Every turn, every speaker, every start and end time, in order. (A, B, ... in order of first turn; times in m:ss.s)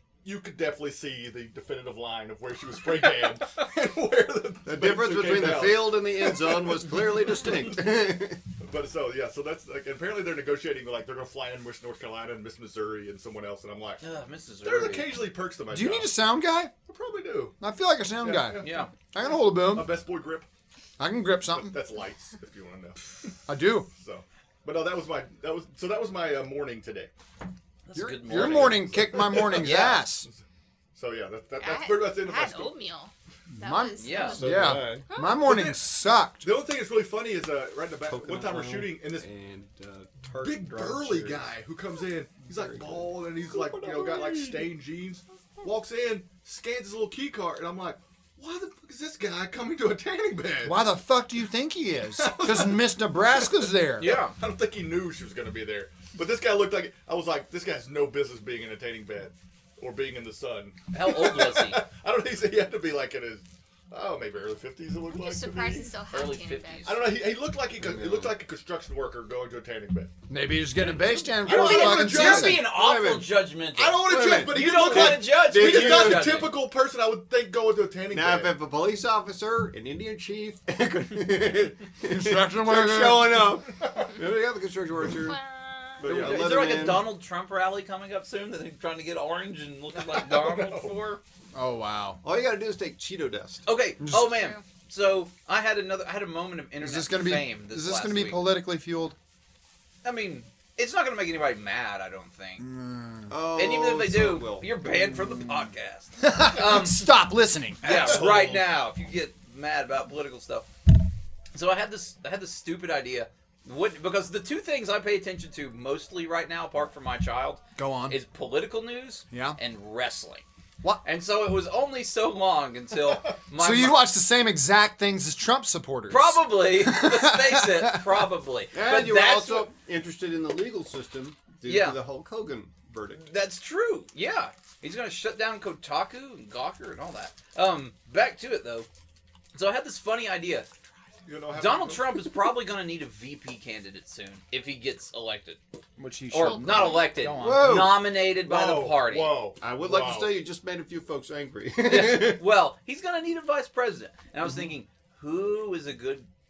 0:00.2-0:08.0 A
0:04.6-0:08.4 B
0:08.6-0:14.0 A
0:14.0-0:15.2 C
0:14.6-0:16.1 A
0:15.7-0:16.7 D
0:16.8-0:17.6 A
0:17.6-0:19.9 D
0:18.2-0:20.5 A
0:18.6-0:18.9 C
0:21.0-0:21.8 D
0:21.5-0:23.3 A
0:23.5-0:23.9 D
0:24.0-0:27.1 A
0:27.8-0:30.0 C
0:27.9-0:30.3 D
0:28.3-0:30.4 A
0:30.9-0:32.7 A
0:31.6-0:35.4 E
0:33.5-0:36.5 D
0:34.0-0:34.4 C
0:34.3-0:35.1 B
0:35.4-0:35.8 A
0:36.4-0:39.3 A
0:38.0-0:41.5 B
0:40.4-0:50.8 A
0:42.4-0:44.7 B
0:50.6-0:54.1 D
0:52.1-1:05.9 A
0:54.0-0:54.3 C
1:00.9-1:01.8 C
1:05.1-1:07.0 E
1:06.1-1:07.0 C
1:06.8-1:10.1 A
1:07.8-1:08.4 B
1:10.3-1:12.6 D
1:11.2-1:16.5 C
1:11.4-1:12.7 A
1:12.1-1:13.4 B
1:13.8-1:18.6 A
1:14.0-1:16.5 B
1:18.1-1:25.4 B
1:22.0-1:23.6 D
1:25.3-1:26.0 E
1:26.0-1:27.1 B
1:26.0-1:31.2 C
1:26.0-1:26.7 A
1:30.0-1:31.0 A
1:31.5-1:32.2 D
1:32.2-1:33.7 B
1:33.6-1:38.4 C
1:34.0-1:34.3 D
1:34.3-1:34.6 E
1:36.8-1:39.2 D
1:40.0-1:42.6 C
1:42.6-1:43.4 D
1:43.3-1:44.7 B
1:43.5-1:47.1 C
1:46.2-1:48.2 D
1:47.8-1:50.7 C
1:47.9-1:48.3 A
1:48.0-1:48.6 B
1:51.5-2:00.4 C
1:57.8-1:58.2 D
1:59.3-1:59.6 D
2:01.0-2:04.0 C
2:03.6-2:08.2 D
2:06.1-2:09.7 C
2:08.7-2:13.3 B
2:11.6-2:12.0 C
2:13.2-2:18.9 C
2:19.5-2:20.7 C
2:21.2-2:22.2 A
2:21.5-2:25.6 C
2:26.0-2:28.0 D
2:26.3-2:29.4 C
2:26.6-2:27.0 E
2:27.3-2:28.2 B
2:28.3-2:30.4 A
2:29.6-2:32.4 B
2:31.8-2:36.3 C